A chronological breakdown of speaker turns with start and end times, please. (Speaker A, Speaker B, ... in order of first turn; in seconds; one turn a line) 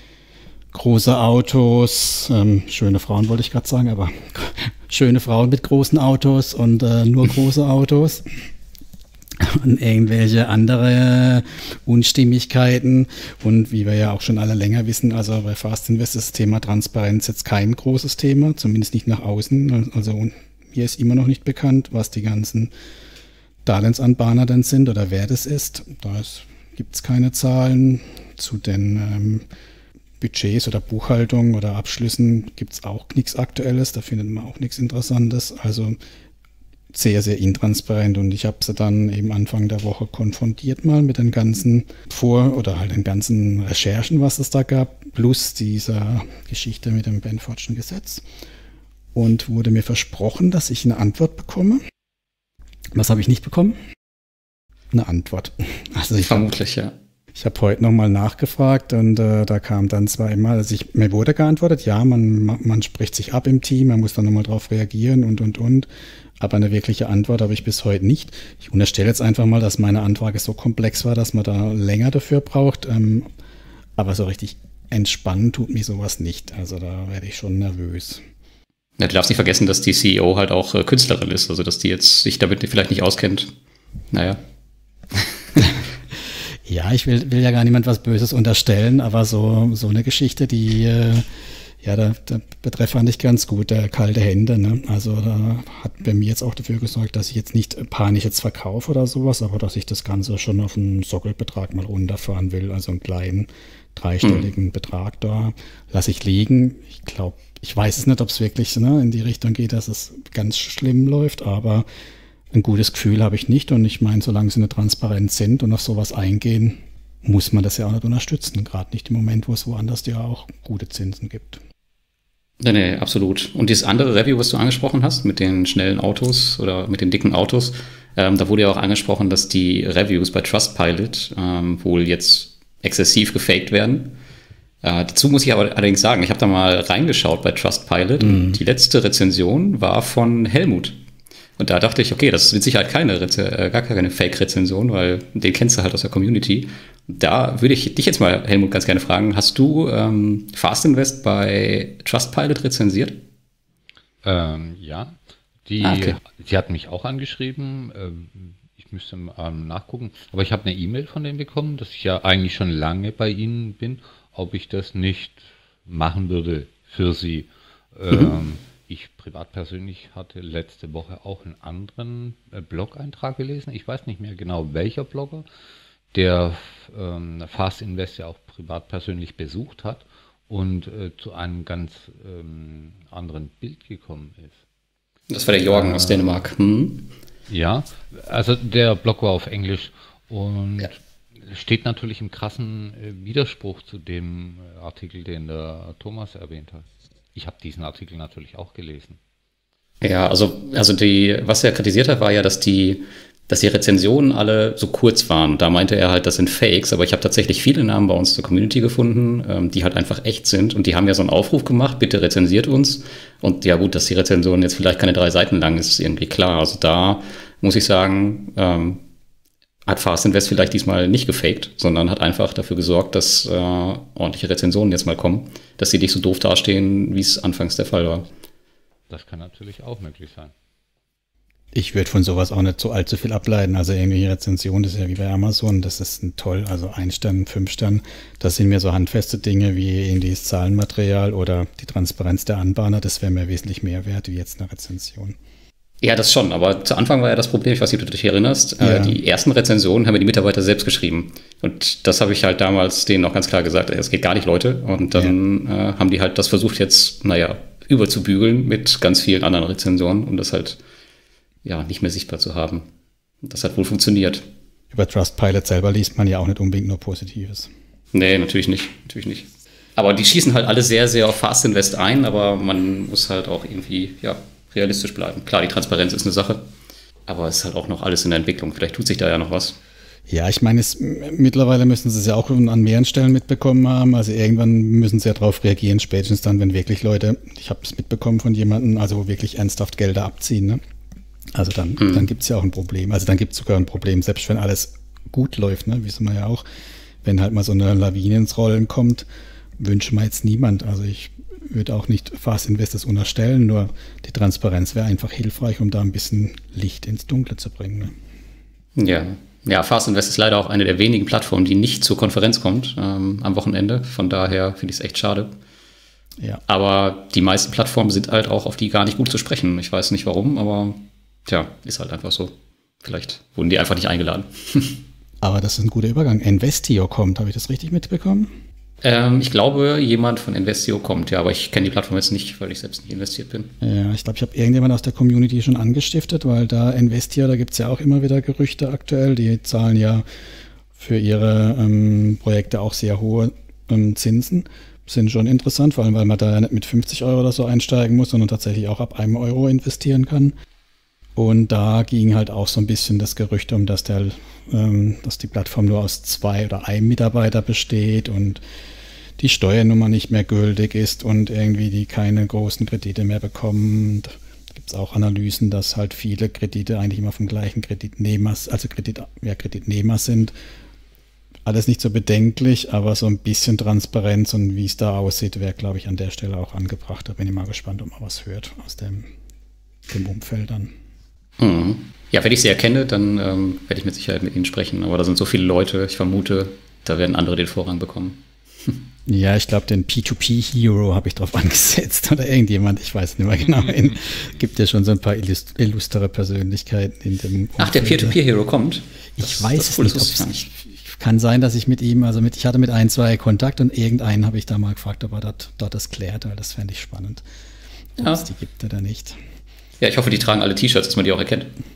Speaker A: 0.7-8.3
Speaker A: 9.4-22.7
Speaker A: 23.6-29.4
Speaker A: 30.2-36.0
Speaker A: 36.9-48.2
Speaker A: 49.1-51.8
Speaker A: 52.9-53.8
Speaker A: 54.9-56.5
Speaker B: 56.2-56.9
Speaker A: 57.3-65.9
Speaker A: 66.4-73.3
Speaker A: 74.0-78.2
Speaker B: 79.0-83.5
Speaker B: 84.1-84.4
Speaker B: 85.2-85.7
Speaker A: 86.6-91.3
Speaker A: 91.8-111.9
Speaker B: 104.2-104.5
Speaker A: 112.5-121.6
Speaker B: 122.6-134.2
Speaker B: 134.8-141.0
Speaker A: 138.2-138.6
Speaker B: 141.6-153.2
Speaker C: 154.2-175.4
Speaker B: 155.8-156.2
Speaker C: 176.1-184.6
Speaker B: 185.3-187.1
Speaker C: 185.7-186.3
Speaker C: 187.5-199.2
Speaker B: 200.0-219.0
Speaker B: 219.9-228.3
Speaker C: 229.1-230.5
Speaker A: 231.7-245.4
Speaker B: 246.0-260.8
Speaker A: 248.8-249.2
Speaker B: 261.6-262.9
Speaker B: 263.4-264.4
Speaker A: 264.9-267.7
Speaker B: 268.1-276.7
Speaker B: 277.3-279.8
Speaker A: 280.3-290.8
Speaker A: 291.5-296.6
Speaker B: 292.0-292.3
Speaker A: 297.2-299.3
Speaker A: 299.8-308.1
Speaker B: 308.9-315.5
Speaker B: 316.7-325.0
Speaker A: 325.4-328.5
Speaker B: 329.0-333.7
Speaker A: 333.8-340.2
Speaker A: 340.9-350.5
Speaker A: 351.3-358.6
Speaker A: 359.4-370.5
Speaker A: 371.6-379.3
Speaker A: 380.1-380.9
Speaker B: 381.6-389.0
Speaker A: 389.2-398.4
Speaker B: 397.8-400.7
Speaker A: 399.4-407.4
Speaker A: 408.2-409.4
Speaker B: 410.0-411.7